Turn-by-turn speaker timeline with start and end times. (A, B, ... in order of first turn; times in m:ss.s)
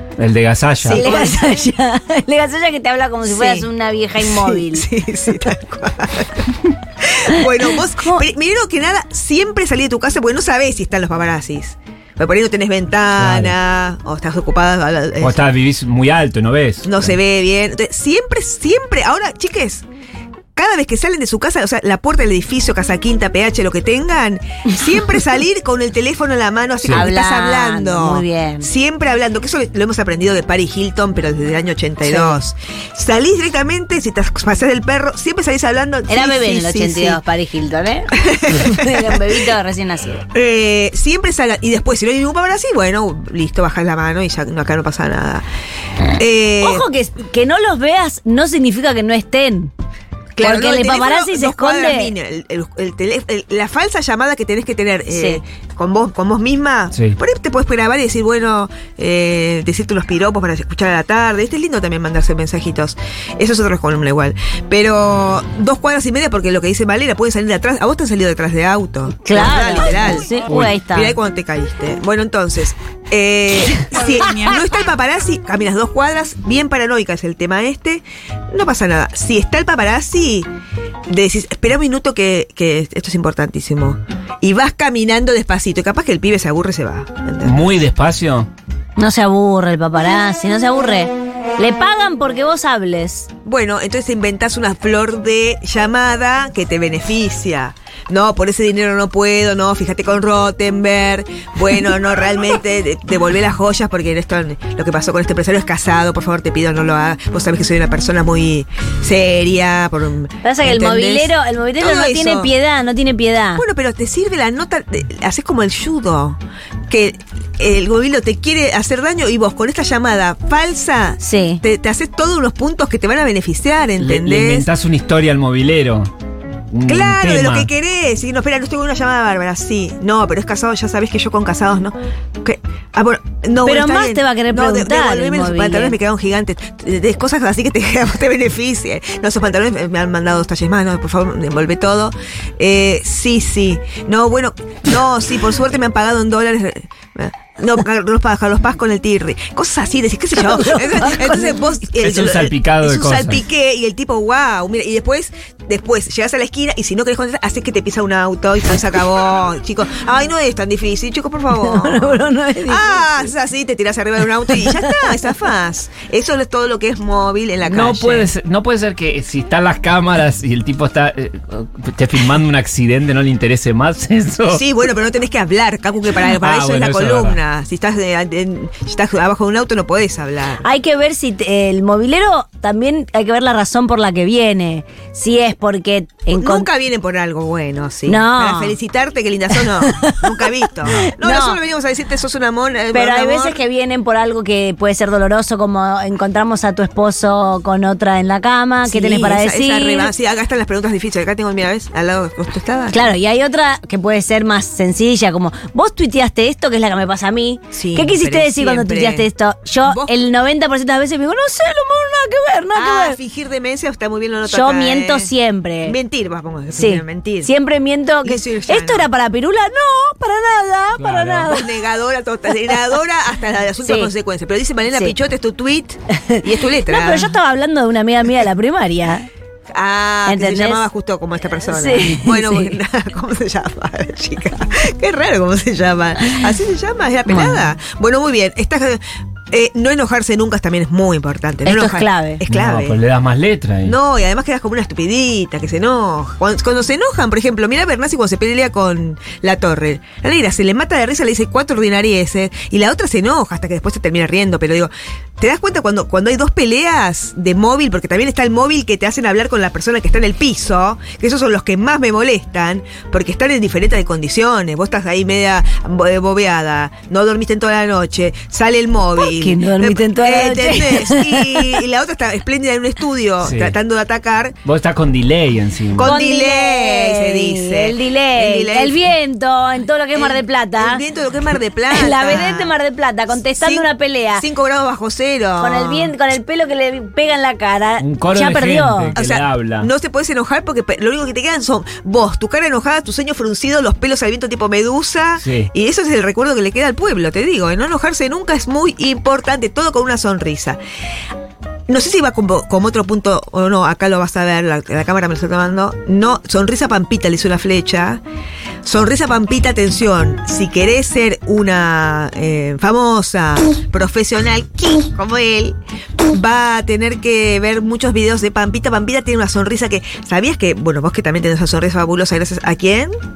0:00.2-0:01.1 A
0:00.8-0:01.7 B
0:00.9-0:04.8 C
0:03.2-0:15.4 B
0:13.2-0:13.5 A
0:15.2-0:17.2 A
0:16.8-0:19.8 B
0:20.6-0:37.2 B
0:26.8-0:27.1 A
0:26.9-0:28.7 C
0:32.0-0:32.4 C
0:36.1-0:40.2 C
0:38.2-0:39.4 B
0:40.3-0:45.4 B
0:46.1-0:46.8 B
0:46.6-0:49.7 C
0:50.3-1:20.5 B
0:50.4-0:52.1 C
0:55.1-0:55.4 C
1:09.2-1:11.1 C
1:10.5-1:10.8 A
1:21.1-1:27.8 B
1:27.4-1:28.5 A
1:29.0-1:33.3 C
1:33.4-1:52.5 B
1:50.4-1:53.6 C
1:53.6-2:04.7 B
2:01.2-2:01.6 C
2:04.0-2:06.1 A
2:06.7-2:07.7 A
2:06.8-2:48.3 B
2:13.6-2:16.0 C
2:30.3-2:31.6 C
2:32.0-2:33.4 A
2:41.5-2:43.3 C
2:44.6-2:45.0 C
2:47.6-2:54.6 A
2:54.5-3:00.7 B
2:56.3-2:57.4 A
3:00.6-3:06.7 C
3:06.3-3:13.6 B
3:08.1-3:08.8 C
3:09.6-3:10.2 C
3:10.8-3:11.6 C
3:12.9-3:20.1 C
3:18.8-3:23.1 B
3:22.9-3:33.2 C
3:27.7-3:29.3 B
3:29.8-3:30.2 B
3:32.7-3:37.5 B
3:34.4-3:36.0 C
3:36.7-3:41.6 C
3:38.2-3:39.1 B
3:41.0-3:41.5 A
3:41.4-3:47.3 B
3:43.8-3:44.1 C
3:46.9-3:49.3 C
3:49.7-4:03.0 B
3:50.2-3:50.8 C
3:51.7-3:52.7 C
3:57.3-3:57.7 C
4:01.6-4:02.4 C
4:02.5-4:04.0 A
4:03.8-4:34.6 B
4:29.2-4:31.6 C
4:33.4-4:33.7 A
4:34.6-4:36.1 A
4:35.9-4:39.1 B
4:36.0-4:41.0 C
4:40.1-4:42.7 B
4:41.9-4:44.4 C
4:43.6-4:46.1 B
4:45.6-4:49.2 C
4:48.0-4:49.9 A
4:49.1-5:00.8 B
4:55.4-4:55.7 A
5:01.9-5:08.2 B
5:08.8-5:23.1 B